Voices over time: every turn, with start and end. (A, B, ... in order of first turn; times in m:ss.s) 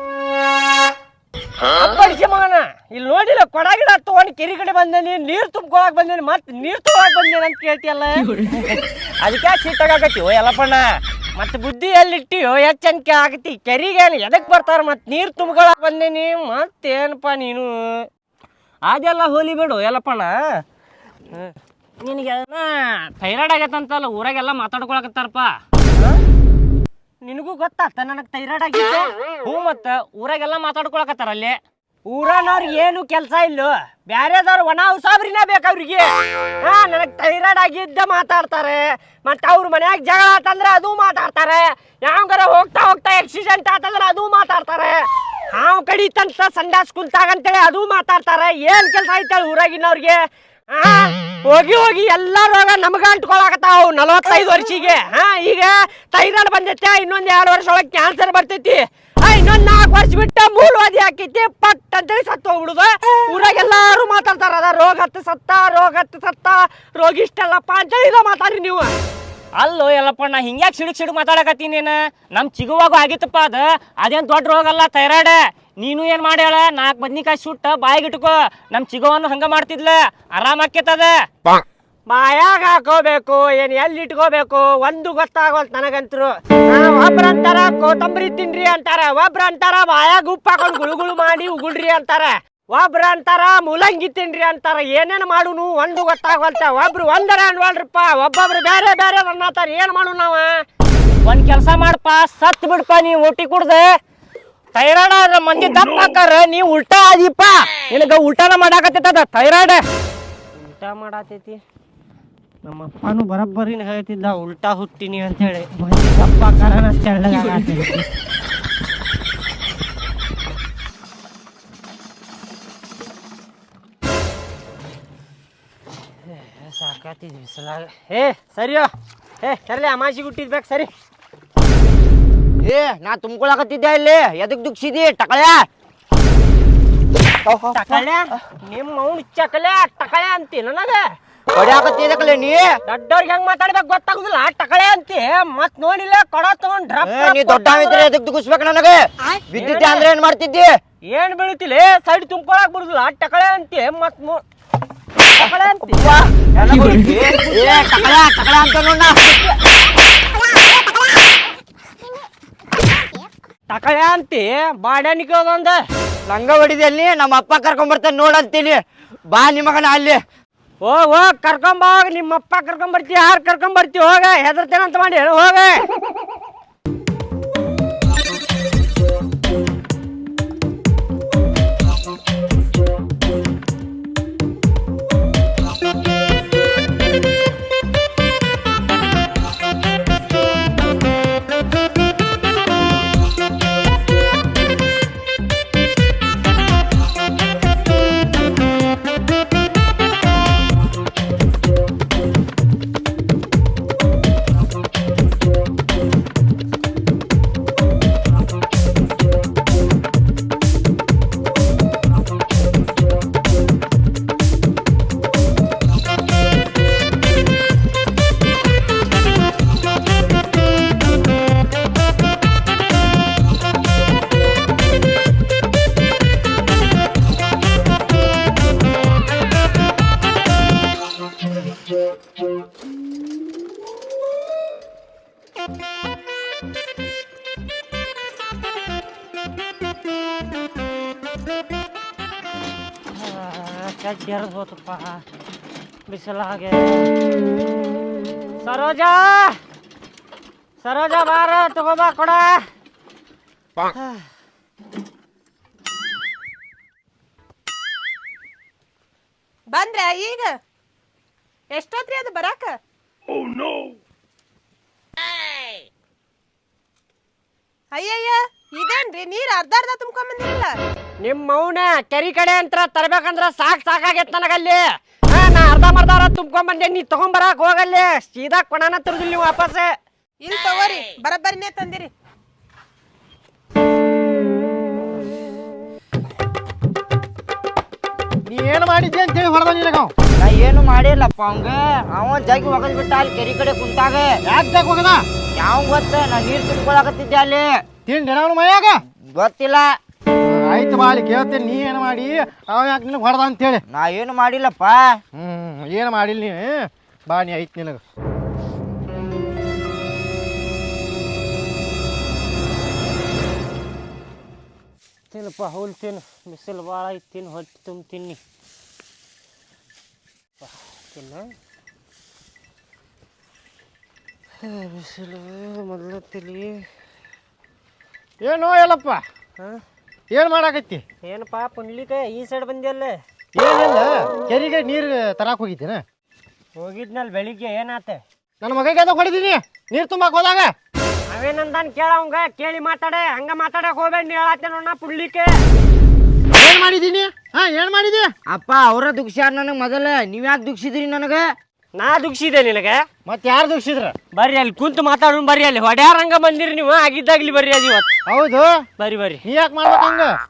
0:01.7-0:18.1 A
0:18.8-0:20.4 A
0:21.3-0:26.2 A
0:27.2-0:36.1 A
0:36.6-0:50.2 A
0:50.7-1:08.9 A
1:09.6-1:21.2 A
1:22.1-1:40.5 A
1:41.2-1:44.0 A
1:44.7-1:49.8 A
1:50.5-1:51.6 A
1:52.6-1:58.1 A
2:06.2-2:08.9 A
2:09.4-2:10.9 A
2:12.6-2:15.6 B
2:17.3-2:18.0 B
2:17.7-2:21.0 A
2:21.5-2:22.7 B
2:22.9-2:28.0 A
2:27.0-2:30.7 B
2:29.5-2:30.1 A
2:31.1-2:34.4 A
2:35.2-2:38.1 A
2:35.4-2:39.6 B
2:43.7-2:45.8 A
2:46.3-2:50.2 B
2:50.8-2:55.8 A
4:03.1-4:05.2 A
4:06.1-4:07.1 A
4:08.6-4:09.6 A
4:10.8-4:12.6 A
4:19.7-4:20.5 C
4:21.7-4:22.7 C
4:27.9-4:30.7 C
4:31.2-4:39.9 A
4:40.4-4:42.1 C
4:48.4-4:50.1 D
4:50.4-4:54.3 B
4:54.4-4:55.2 D
4:55.5-4:57.8 B
4:58.0-4:59.0 D
4:59.3-5:00.0 B
5:00.4-5:03.8 D
5:03.9-5:05.2 B
5:05.3-5:08.0 D
5:15.3-5:18.4 A
5:20.6-5:21.5 A
5:24.6-5:26.8 A
5:28.4-5:29.2 D
5:30.3-5:31.0 D
5:31.2-5:33.2 A
5:33.5-5:36.0 D
5:36.8-5:38.2 A
5:38.6-5:40.7 D
5:41.3-5:45.5 A
5:46.5-5:48.3 D
5:48.5-5:51.5 B
5:52.0-5:53.0 A
5:53.2-5:54.1 D
5:54.3-5:58.1 A
5:58.3-5:58.7 D
5:59.0-5:59.4 A
5:59.4-6:00.3 D